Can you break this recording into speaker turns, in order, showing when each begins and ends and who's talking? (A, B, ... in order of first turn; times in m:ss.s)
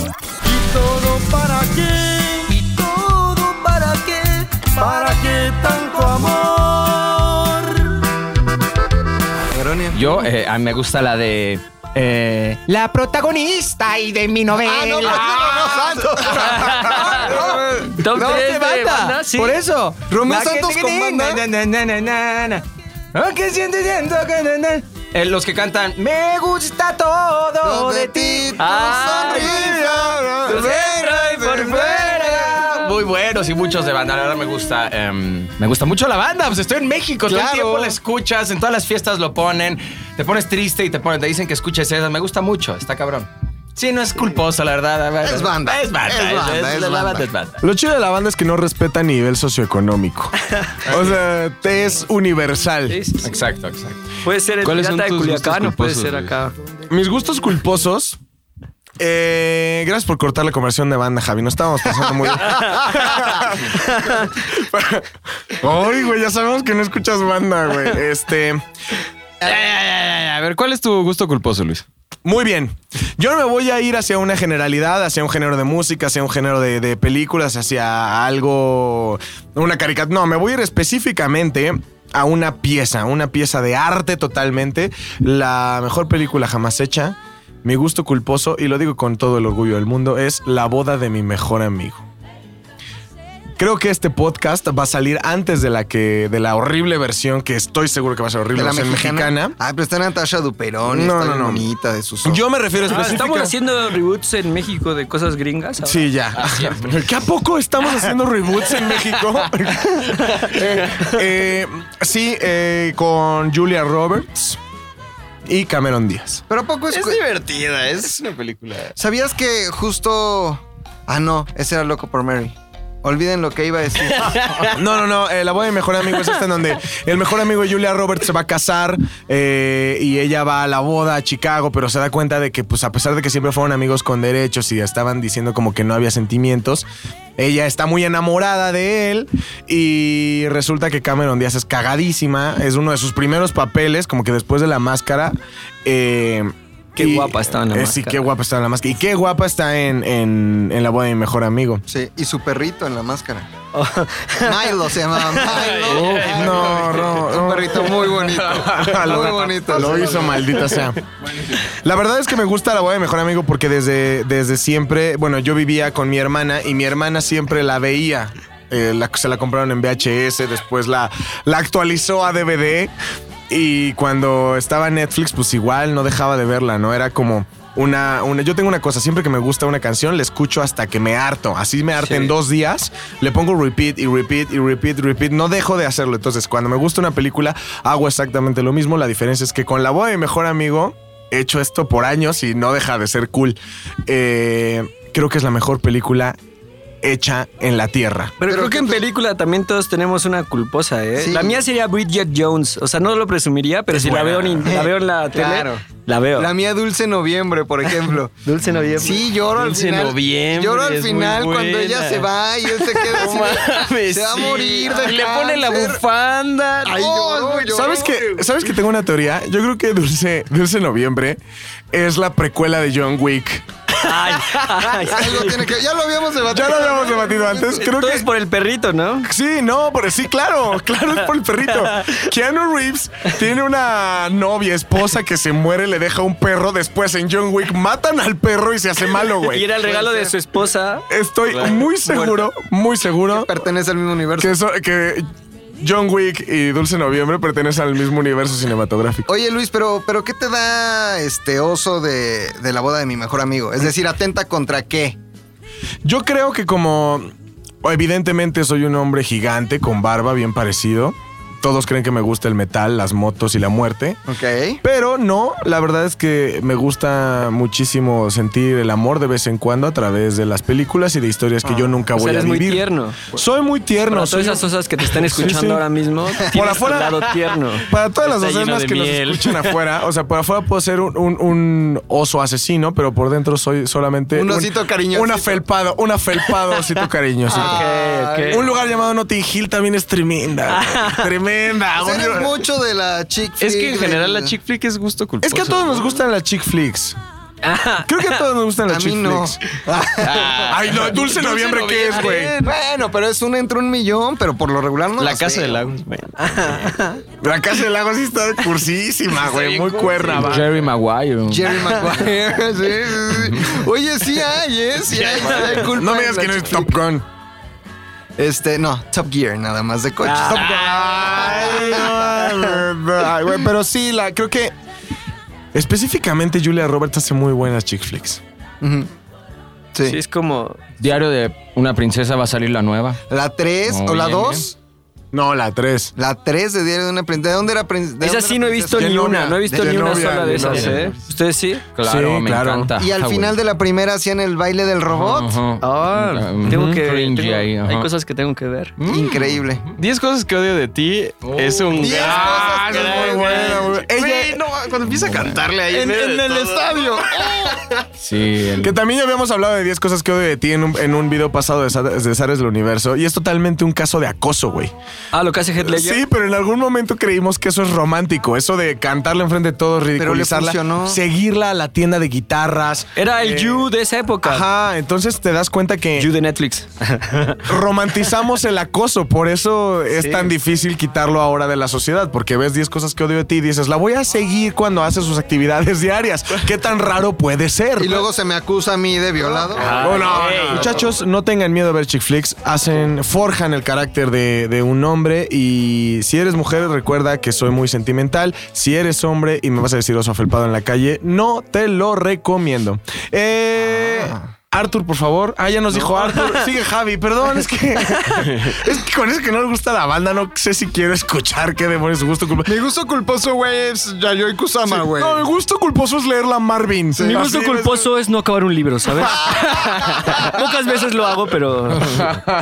0:00.4-0:08.0 A
0:09.5-0:10.2 B
0:09.9-0:29.2 C
0:14.5-0:18.4 B
0:16.6-0:17.3 D
0:17.8-0:19.6 D
0:20.1-0:21.4 B
0:27.6-0:32.6 B
0:28.6-0:29.8 D
0:29.2-0:30.7 E
0:30.4-0:32.2 D
0:30.5-0:47.6 C
0:37.2-0:38.0 B
0:45.2-0:47.3 B
0:47.6-0:53.0 E
0:52.9-0:53.2 D
0:53.2-0:54.0 C
0:54.2-0:56.5 D
0:54.6-0:56.3 F
0:56.9-0:58.2 E
0:59.0-1:08.6 E
1:09.4-1:11.8 F
1:12.2-1:32.0 E
1:33.6-1:39.6 E
1:38.5-1:42.4 B
1:40.8-1:41.6 E
1:42.2-1:43.5 E
1:42.8-1:46.1 D
1:45.8-1:54.6 E
1:46.4-1:46.9 C
1:55.4-1:56.4 E
1:56.5-1:57.3 B
1:56.9-1:58.9 F
1:59.0-2:04.7 B
2:04.7-2:31.8 E
2:27.0-2:28.2 D
2:31.9-2:33.5 B
2:33.7-2:35.5 D
2:34.4-2:40.4 B
2:35.5-2:37.2 F
2:35.8-2:41.0 E
2:41.6-2:52.9 E
2:53.5-3:16.4 E
3:17.0-3:18.4 E
3:18.4-3:26.5 D
3:18.4-3:19.0 B
3:21.2-3:21.6 B
3:24.6-3:25.6 B
3:26.4-3:28.4 B
3:28.4-3:29.2 D
3:29.0-3:36.0 B
3:29.4-3:32.3 F
3:32.8-3:38.4 F
3:36.8-3:38.1 B
3:37.7-3:41.4 E
3:41.9-3:43.6 E
3:44.0-3:45.5 D
3:45.1-3:47.5 B
3:46.5-3:48.3 E
3:47.7-3:49.3 D
3:49.2-3:59.8 E
3:59.4-4:01.0 D
4:00.0-4:00.2 B
4:01.1-4:03.5 E
4:01.5-4:01.8 F
4:02.0-4:02.5 D
4:03.3-4:04.5 B
4:04.4-4:05.2 E
4:05.8-4:09.3 E
4:09.3-4:15.2 B
4:16.0-4:17.3 E
4:17.8-4:24.2 E
4:24.3-4:24.8 B
4:24.8-4:35.8 E
4:32.1-4:33.3 D
4:34.1-4:37.9 D
4:36.4-4:37.3 E
4:37.9-4:47.9 E
4:38.2-4:39.8 F
4:44.3-4:45.6 B
4:47.5-4:48.6 D
4:47.5-4:48.7 B
4:48.5-4:52.6 E
4:50.7-4:51.3 D
4:52.0-4:54.5 B
4:53.6-4:56.0 F
4:55.4-4:57.2 E
4:57.6-4:58.4 D
4:58.0-4:59.6 E
4:58.9-5:00.7 B
5:00.2-5:02.7 F
5:00.7-5:02.6 E
5:02.6-5:05.9 B
5:05.2-5:07.0 F
5:06.4-5:07.2 D
5:07.4-5:10.8 E
5:09.4-5:10.6 F
5:10.3-5:12.2 C
5:11.4-5:16.9 B
5:15.1-5:15.5 F
5:15.5-5:15.8 D
5:15.9-5:17.2 E
5:18.4-5:22.2 B
5:20.2-5:22.1 D
5:20.4-5:24.7 E
5:25.7-5:28.4 E
5:28.8-5:29.1 B
5:30.0-5:30.8 D
5:31.0-5:33.2 C
5:33.3-5:34.7 B
5:33.9-5:34.6 C
5:35.3-5:36.1 E
5:36.2-5:40.5 B
5:38.2-5:41.8 D
5:38.9-5:41.0 E
5:42.0-5:43.6 C
5:42.0-5:42.9 E
5:43.0-5:45.6 B
5:45.1-5:48.1 C
5:45.8-5:48.9 D
5:46.6-5:47.0 E
5:49.0-5:49.9 C
5:49.1-5:49.8 B
5:50.0-5:58.0 F
5:51.4-5:52.4 C
5:52.0-5:54.0 B
5:52.1-5:54.6 E
5:55.1-5:55.6 C
5:55.9-5:57.8 B
5:58.2-5:58.9 C
5:58.8-6:04.9 E
6:05.3-6:06.2 D
6:05.8-6:13.9 E
6:10.2-6:11.2 B
6:13.2-6:14.7 D
6:14.4-6:16.3 E
6:16.2-6:17.6 D
6:17.6-6:28.3 E
6:20.1-6:20.5 D
6:28.0-6:30.2 B
6:29.8-6:31.0 D
6:29.8-6:30.9 C
6:30.0-6:52.8 E
6:44.0-6:44.4 B
6:48.4-6:48.8 F
6:52.6-6:55.4 B
6:54.8-6:58.1 E
6:57.2-6:57.4 B
6:57.2-7:02.3 D
6:59.2-7:00.6 B